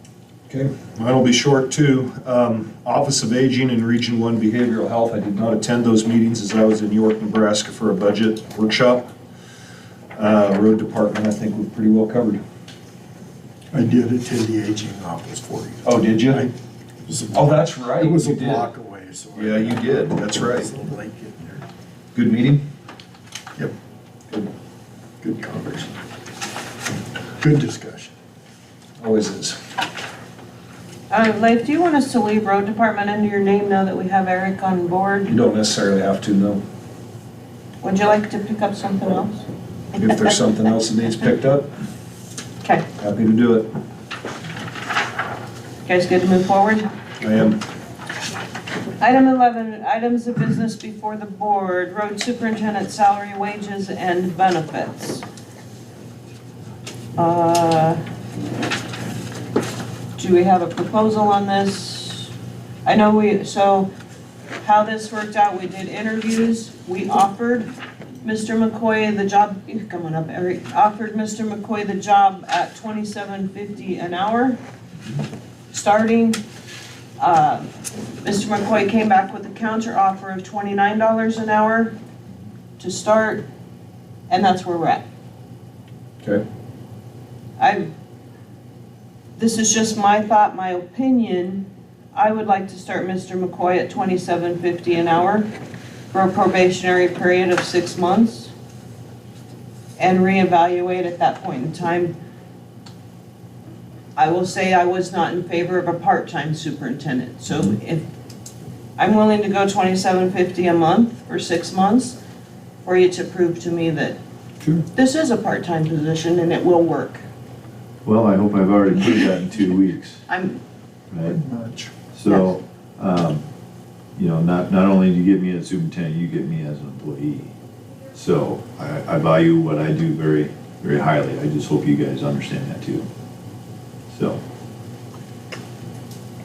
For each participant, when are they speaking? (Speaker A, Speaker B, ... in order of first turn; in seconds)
Speaker A: 0.5-9.1, 10.2-12.4, 15.8-16.5, 17.3-18.7, 19.4-20.7, 22.1-22.6, 29.0-29.6, 35.3-36.6, 39.9-41.7, 43.0-43.7, 47.2-47.6
Speaker B: 13.7-16.5, 17.1-21.6, 25.2-25.9, 27.4-28.1, 121.4-121.9
Speaker C: 31.1-35.4, 37.8-39.5, 45.9-46.9, 49.0-55.2, 57.2-58.0, 60.2-62.3, 62.9-63.9, 64.6-67.7, 68.2-74.6, 75.7-76.4, 77.2-77.7, 78.2-81.9, 82.8-83.5, 84.3-85.0, 87.6-87.9, 89.4-95.5, 96.1-98.5, 100.0-102.2, 104.2-108.0, 109.0-112.2, 112.8-114.2, 114.9-117.2, 120.3-120.6
Speaker D: 114.6-114.9, 118.0-120.2, 121.1-121.4, 122.1-123.4, 124.2-127.5, 128.1-133.1, 134.1-134.4